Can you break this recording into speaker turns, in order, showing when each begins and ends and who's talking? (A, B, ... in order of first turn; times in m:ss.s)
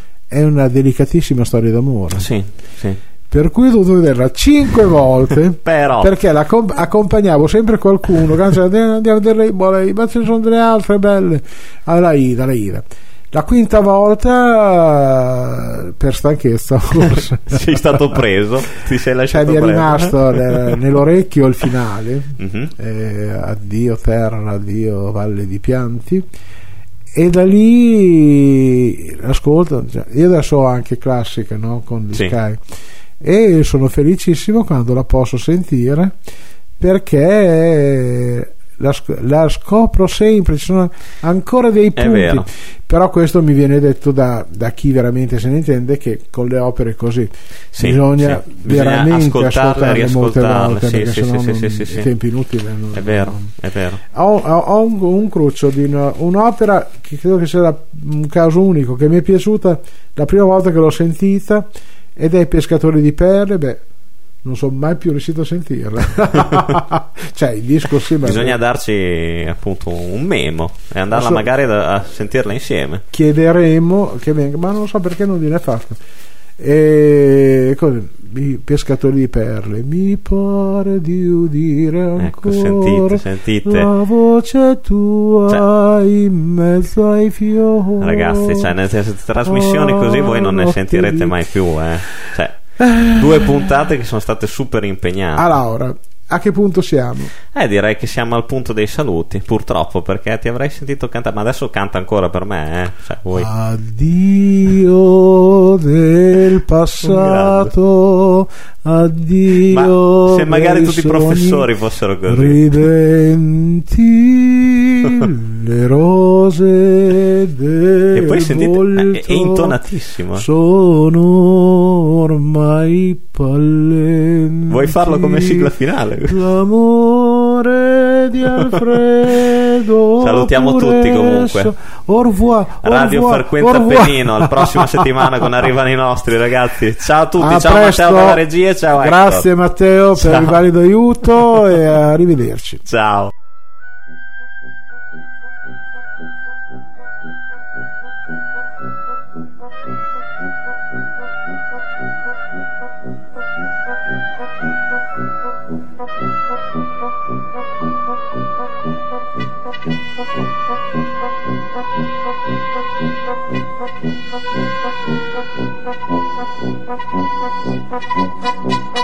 0:00.3-0:02.3 A
0:02.1-0:03.0 B
0:03.3-0:18.2 A
0:05.6-0:06.2 B
0:17.2-0:20.8 B
0:19.3-0:26.3 A
0:22.4-0:22.7 B
0:27.1-0:32.6 A
0:33.2-0:36.2 A
0:36.8-0:53.5 A
0:42.0-0:42.5 B
0:47.7-0:52.1 B
0:52.9-0:54.0 B
0:54.1-1:03.8 A
1:04.4-1:08.6 A
1:08.2-1:13.0 B
1:11.1-1:11.4 A
1:13.1-1:16.0 A
1:16.6-1:28.7 A
1:22.2-1:23.9 B
1:28.0-1:35.5 B
1:29.4-1:31.4 A
1:32.8-1:33.7 A
1:35.4-1:37.3 A
1:37.5-1:43.5 B
1:43.3-1:51.7 A
1:47.0-1:47.7 B
1:49.7-1:52.7 B
1:52.3-1:59.8 A
1:58.1-2:00.4 B
2:00.3-2:15.4 A
2:04.7-2:06.4 B
2:10.2-2:11.7 B
2:12.8-2:19.5 B
2:17.4-2:22.8 A
2:20.2-2:20.6 B
2:22.8-2:23.3 B